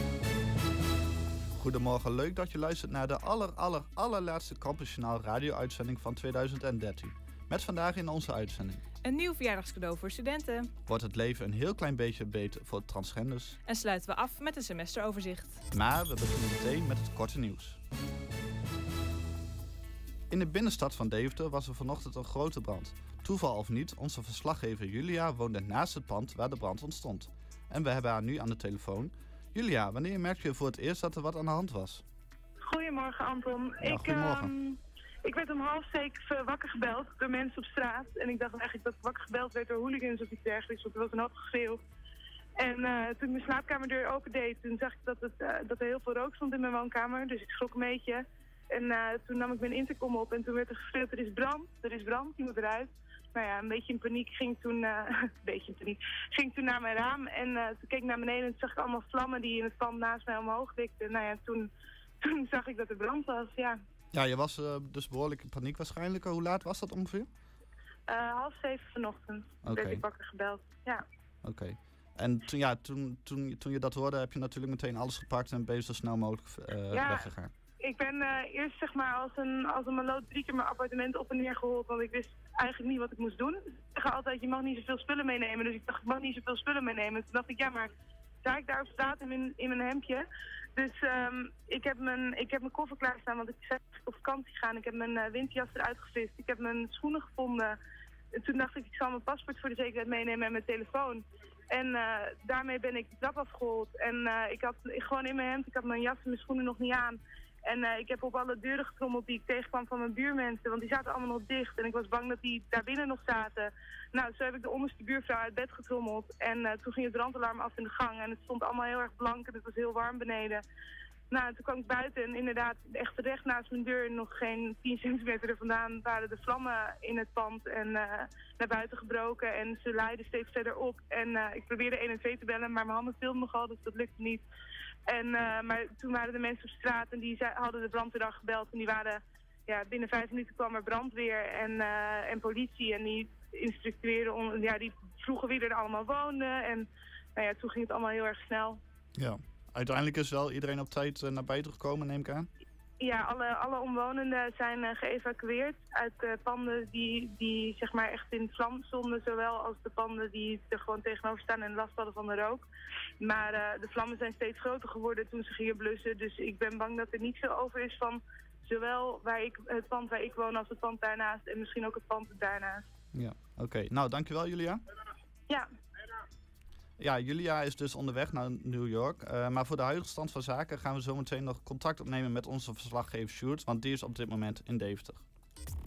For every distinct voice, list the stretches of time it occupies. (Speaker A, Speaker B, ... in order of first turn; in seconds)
Speaker A: 1.5-8.8, 10.9-13.6, 15.7-17.8, 20.3-32.0, 33.8-34.5, 64.1-67.3, 69.6-70.0, 71.4-77.5, 149.2-152.5, 173.1-174.8, 177.0-185.2
Speaker B: 9.0-10.7, 13.7-15.6
Speaker C: 32.7-41.8, 42.6-61.7, 62.2-63.8, 68.1-71.0, 76.9-77.3, 77.8-87.9, 88.4-90.2, 90.8-97.8, 98.4-120.6, 121.3-134.4, 135.1-148.8, 153.0-162.7, 163.2-172.8